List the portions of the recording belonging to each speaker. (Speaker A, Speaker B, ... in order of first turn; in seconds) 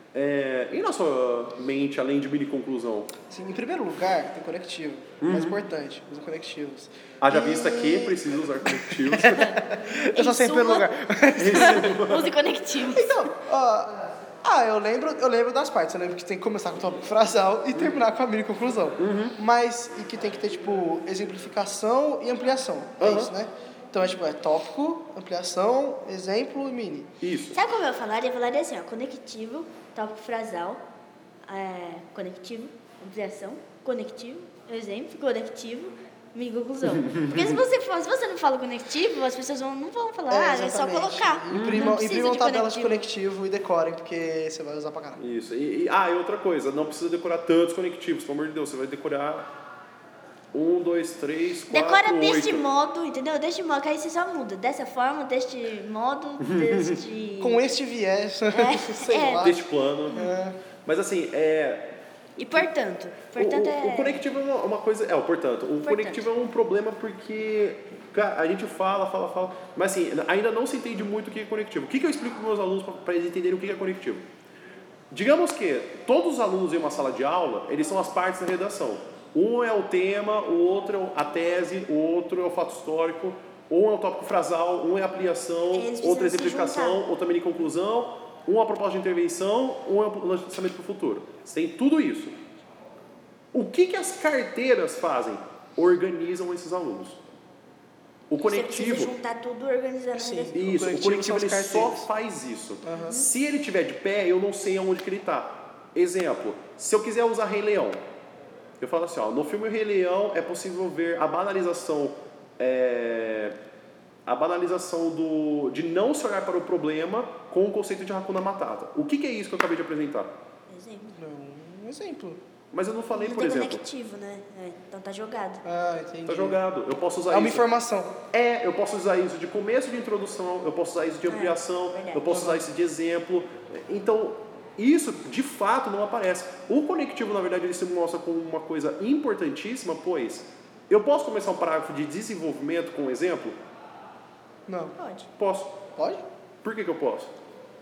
Speaker A: 0.1-3.1, 5.2-5.6, 7.2-9.6, 11.3-12.3, 19.0-19.4, 23.0-23.3, 27.2-27.6, 37.0-37.6, 41.5-42.0, 45.2-49.5, 50.5-52.6, 56.4-57.0, 59.4-60.2, 60.9-61.9, 63.4-74.2, 75.1-92.4, 93.5-97.2, 98.3-99.2, 100.5-108.0, 108.8-113.6, 114.3-120.3, 122.7-123.8, 126.3-127.7, 128.3-143.6, 145.4-145.8, 146.6-147.3
Speaker B: 3.3-12.0, 12.9-27.1, 40.3-45.2, 57.4-60.6, 100.2-102.1, 102.8-103.2, 121.2-122.4, 125.6-126.6, 127.3-128.2, 132.3-132.6, 144.7-144.9, 146.0-146.2
Speaker C: 10.1-13.2, 27.5-30.8, 31.5-43.1, 51.7-57.6, 58.5-59.6, 60.1-60.4, 62.4-64.2, 65.8-66.3, 85.7-87.0, 98.4-100.6, 120.7-121.2, 123.1-125.6, 131.3-132.4, 145.0-145.3